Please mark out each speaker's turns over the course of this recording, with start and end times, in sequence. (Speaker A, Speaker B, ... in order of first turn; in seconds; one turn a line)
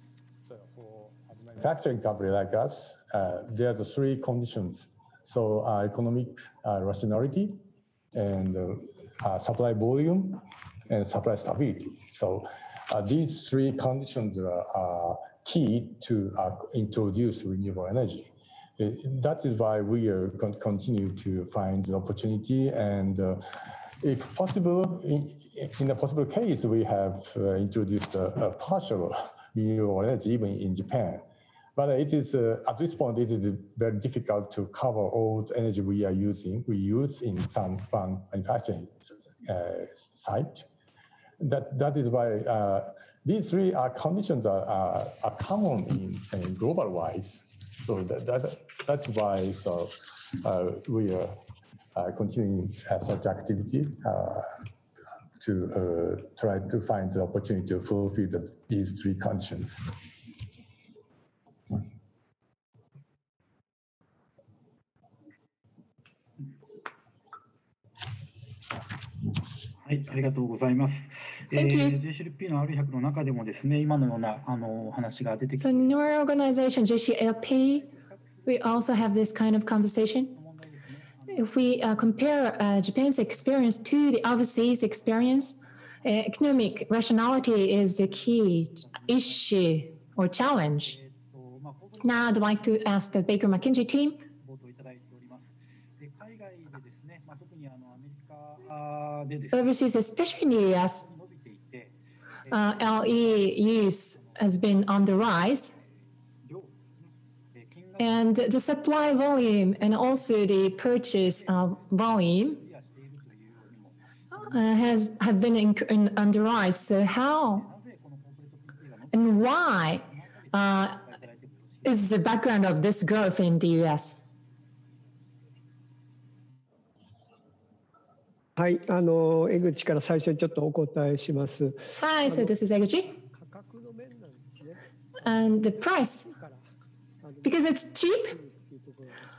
Speaker A: 0.5-7.6
Speaker A: 8.1-23.4
Speaker A: 24.0-31.2
Speaker A: 31.8-40.7
Speaker A: 41.4-51.4
Speaker A: 52.0-54.5
Speaker A: 55.4-59.9
Speaker B: 69.8-75.9
Speaker C: 71.5-72.0
Speaker C: 75.6-77.9
Speaker C: 78.5-80.3
Speaker C: 81.3-91.0
Speaker C: 92.0-94.2
Speaker B: 96.2-97.2
Speaker B: 98.5-99.5
Speaker C: 99.5-101.0
Speaker C: 102.5-105.7
Speaker C: 108.0-112.6
Speaker C: 114.3-117.7
Speaker C: 119.1-121.0
Speaker C: 121.8-124.2
Speaker D: 128.6-132.5
Speaker C: 132.0-133.1
Speaker D: 133.4-134.5
Speaker C: 135.2-136.3
Speaker C: 137.4-138.4